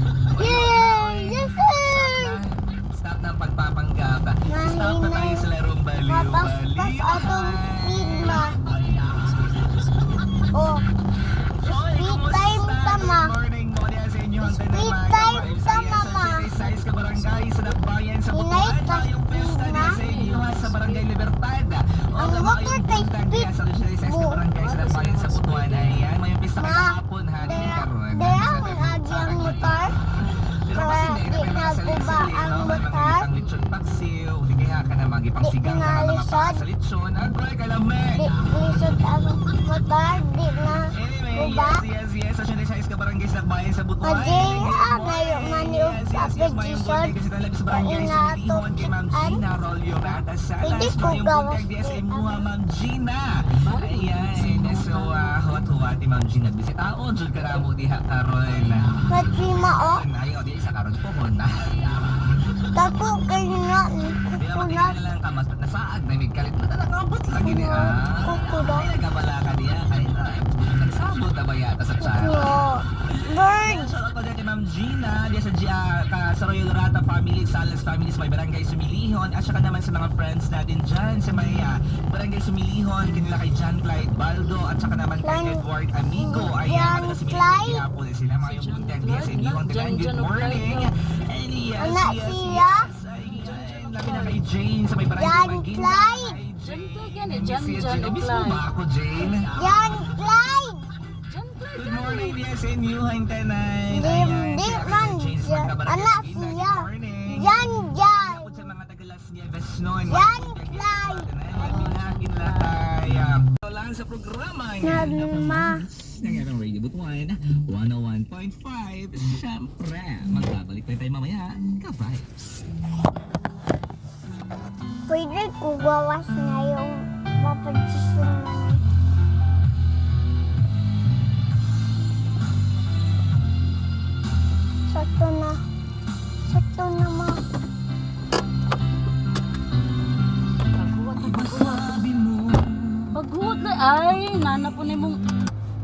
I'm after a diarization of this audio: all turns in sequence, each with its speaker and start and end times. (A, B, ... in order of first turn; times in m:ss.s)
0:00.3-0:08.4 A
0:00.4-0:02.4 B
0:04.5-0:05.5 B
0:06.0-0:08.6 B
0:08.7-0:10.4 C
0:10.5-0:10.8 B
0:11.5-0:29.8 A
0:11.7-0:13.3 B
0:14.4-0:16.5 B
0:16.6-0:17.7 C
0:18.3-0:20.0 B
0:19.8-0:21.0 C
0:22.2-0:24.4 B
0:24.6-0:26.1 C
0:26.6-0:30.0 B
0:30.2-0:30.6 C
0:30.5-0:38.3 A
0:30.7-0:33.3 B
0:35.4-0:36.6 B
0:38.2-0:41.8 B
0:40.9-1:01.8 A
0:44.0-0:47.1 B
0:47.7-0:49.4 B
0:50.6-0:52.5 B
0:53.4-0:55.4 C
0:59.1-1:00.0 B
1:02.7-1:05.0 B
1:04.4-1:39.5 A
1:07.4-1:08.9 B
1:12.0-1:13.9 B
1:25.2-1:27.8 B
1:28.4-1:30.9 C
1:31.8-1:32.9 B
1:33.2-1:34.4 C
1:35.2-1:36.4 B
1:36.6-1:38.7 C
1:39.5-1:40.9 B
1:41.2-1:42.4 C
1:41.7-2:02.7 A
1:43.9-1:48.7 B
1:50.0-1:51.9 B
1:51.6-1:52.8 C
1:54.8-1:55.8 B
2:05.1-2:08.8 B
2:14.9-2:15.6 B
2:16.4-2:17.4 B
2:20.8-2:21.9 C
2:21.2-2:23.2 A
2:23.1-2:25.2 C